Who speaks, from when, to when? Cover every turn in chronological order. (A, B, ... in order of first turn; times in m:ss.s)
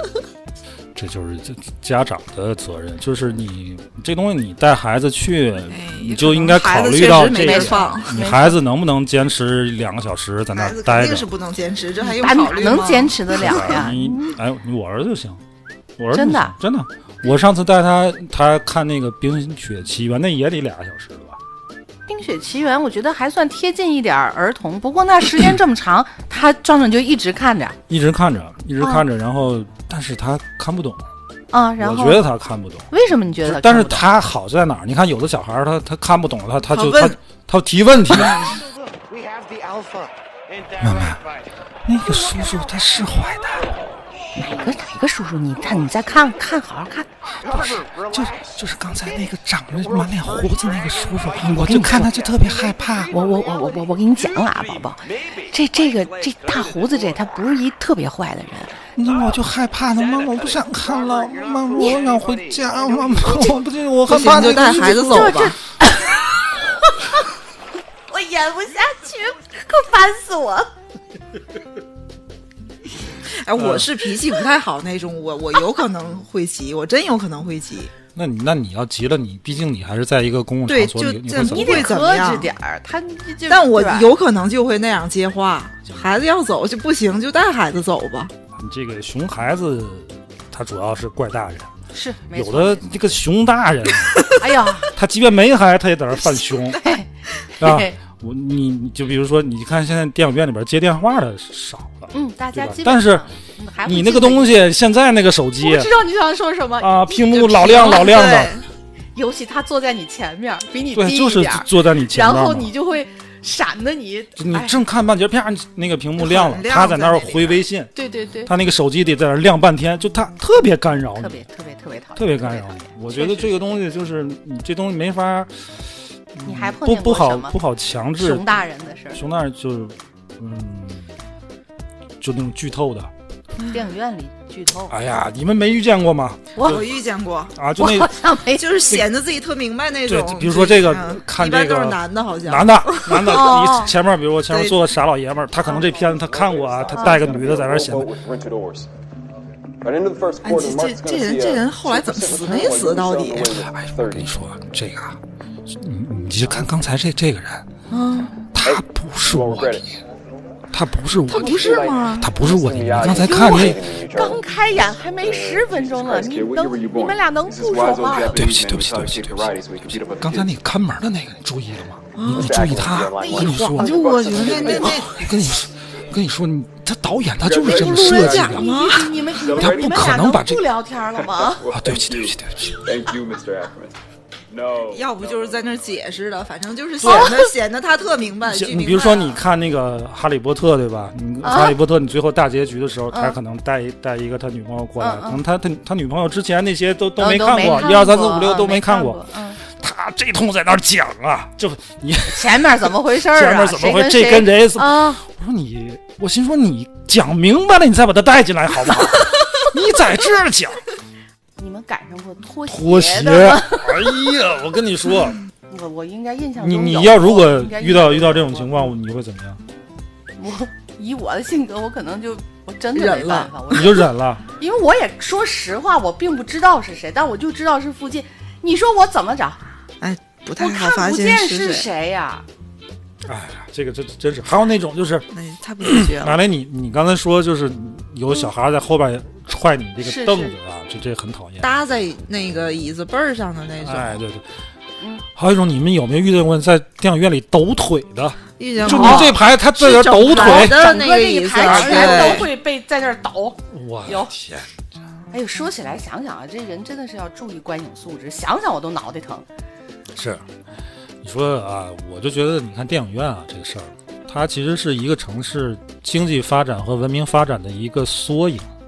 0:01.0-0:11.3 A
0:05.7-0:08.2 B
0:07.1-0:08.6 C
0:10.5-0:13.6 B
0:12.2-0:14.4 C
0:13.3-0:15.4 A
0:16.0-0:21.4 A
0:16.1-0:16.5 C
0:22.1-0:27.8 C
0:27.9-0:31.1 A
0:28.8-0:29.0 C
0:31.5-0:32.2 C
0:31.8-0:32.9 A
0:32.9-0:34.1 C
0:33.4-0:38.6 A
0:38.4-0:41.4 D
0:40.8-0:41.2 A
0:41.8-0:43.8 A
0:42.0-0:43.8 D
0:44.4-0:44.8 D
0:44.4-0:47.1 C
0:45.6-0:46.2 D
0:47.4-0:57.4 D
0:47.4-0:53.1 A
0:51.5-0:52.1 C
0:53.1-0:58.8 C
0:59.0-1:05.4 A
0:59.0-0:59.4 D
0:59.9-1:03.7 D
1:04.1-1:05.6 B
1:04.1-1:07.3 C
1:08.1-1:10.7 C
1:13.2-1:17.9 B
1:13.6-1:13.9 A
1:18.2-1:21.9 A
1:20.7-1:22.5 B
1:21.5-1:24.1 C
1:23.5-1:28.3 B
1:28.6-1:31.7 A
1:31.9-1:32.9 C
1:32.3-1:34.3 A
1:34.4-1:34.9 C
1:34.9-1:36.9 A
1:36.7-1:38.0 C
1:37.6-1:43.3 A
1:42.1-1:44.6 C
1:43.8-1:45.9 A
1:45.6-1:48.5 C
1:46.8-1:48.6 A
1:47.8-1:48.7 B
1:49.2-1:54.8 C
1:50.9-1:52.7 A
1:54.4-1:57.9 A
1:56.2-1:57.6 B
1:58.0-1:58.5 C
1:58.5-2:01.4 A
2:01.2-2:03.8 C
2:02.2-2:05.7 A
2:06.3-2:08.5 A
2:06.4-2:07.6 C
2:08.2-2:09.2 C
2:09.1-2:11.1 A
2:12.2-2:13.1 A
2:13.7-2:14.9 C
2:14.9-2:16.9 A
2:16.6-2:16.8 C
2:16.6-2:17.5 B
2:17.6-2:18.1 A
2:17.8-2:18.8 C
2:18.6-2:23.6 B
2:20.1-2:28.1 A
2:23.1-2:24.0 C
2:24.5-2:24.8 B
2:25.6-2:28.9 E
2:26.9-2:27.2 C
2:29.8-2:34.3 E
2:30.4-2:33.6 B
2:33.6-2:35.2 A
2:35.7-2:37.7 A
2:37.9-2:38.4 B
2:38.5-2:40.0 A
2:38.6-2:40.0 E
2:40.7-2:43.8 A
2:41.3-2:44.5 E
2:41.3-2:42.3 B
2:43.0-2:48.4 C
2:45.2-2:50.5 E
2:48.3-2:58.7 A
2:52.2-2:55.3 B
2:52.2-2:55.3 E
2:54.4-2:55.0 C
2:57.4-3:00.3 E
2:57.6-2:59.2 B
2:58.3-3:01.7 C
2:59.5-3:00.6 A
3:01.2-3:04.0 E
3:01.7-3:02.9 A
3:04.5-3:06.0 E
3:04.9-3:09.4 B
3:07.0-3:07.4 A
3:07.0-3:07.5 C
3:08.4-3:30.9 A
3:11.4-3:11.8 C
3:13.1-3:13.4 C
3:15.0-3:15.4 C
3:17.2-3:19.6 C
3:22.3-3:25.2 C
3:31.6-3:34.3 C
3:32.7-3:35.4 A
3:35.7-3:38.9 C
3:36.6-3:39.6 A
3:40.4-3:49.6 C
3:42.9-3:43.8 B
3:43.7-3:44.4 A
3:50.0-3:51.9 B
3:50.6-3:52.5 C
3:53.3-3:55.3 A
3:55.3-3:56.4 B
3:55.8-4:01.7 A
4:00.0-4:00.6 C
4:01.6-4:04.2 B
4:03.8-4:04.5 A
4:05.3-4:11.0 A
4:08.6-4:12.5 B
4:08.8-4:09.4 C
4:10.2-4:14.3 C
4:11.6-4:12.5 A
4:13.7-4:14.7 A
4:15.3-4:19.4 C
4:20.1-4:20.5 A
4:21.2-4:28.7 A